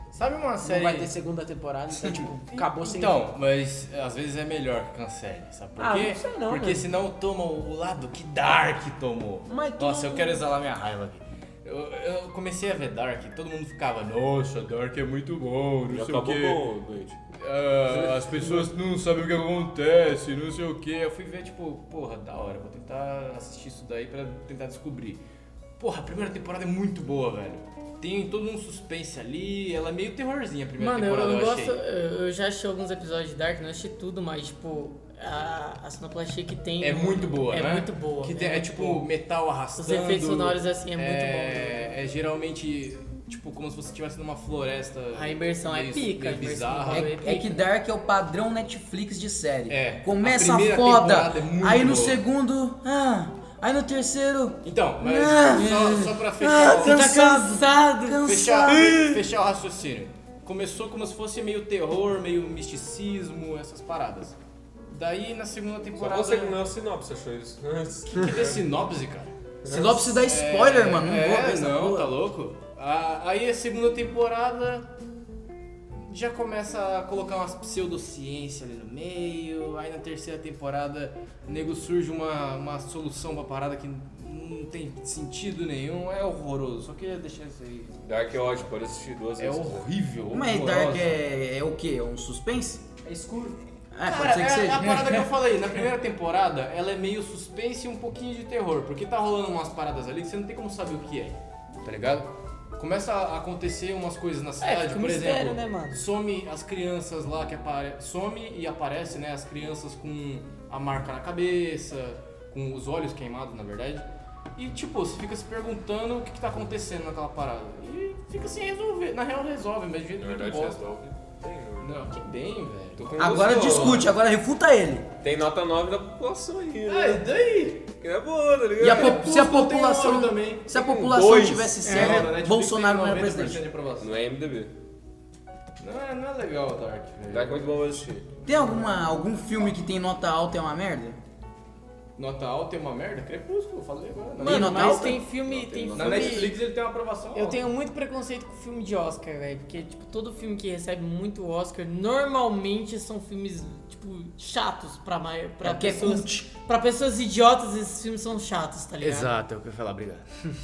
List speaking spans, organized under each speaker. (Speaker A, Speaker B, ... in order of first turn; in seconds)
Speaker A: 0.1-1.1, 2.5-16.6, 17.3-25.2, 25.8-31.8, 36.8-47.1, 49.7-52.2, 54.6-57.1, 58.2-64.4, 64.9-66.6, 68.1-69.3, 70.1-74.9, 76.1-88.7, 89.4-91.2, 94.1-120.8, 121.8-124.1, 126.9-127.9, 128.8-130.7, 131.8-134.1, 135.8-137.7, 142.2-145.0, 145.9-147.6, 159.0-160.3
Speaker B: 0.6-3.2, 5.8-6.8, 9.5-10.4, 93.0-93.6
Speaker C: 15.9-17.2, 17.9-18.7, 66.0-68.6, 69.6-69.9, 88.0-89.9, 120.2-122.0, 123.0-124.1, 125.2-127.3, 128.0-129.2, 130.7-131.7, 134.0-134.7, 137.3-138.3, 145.5-146.5
Speaker D: 30.8-39.1, 39.8-41.9, 45.1-47.6, 55.5-59.0, 104.6-106.0, 131.8-132.3, 144.4-146.5, 147.3-159.3
Speaker E: 46.9-59.2, 69.7-72.2, 90.3-92.8, 93.9-95.3, 123.2-125.1, 128.8-133.6, 138.5-141.2, 144.4-145.2, 155.6-156.5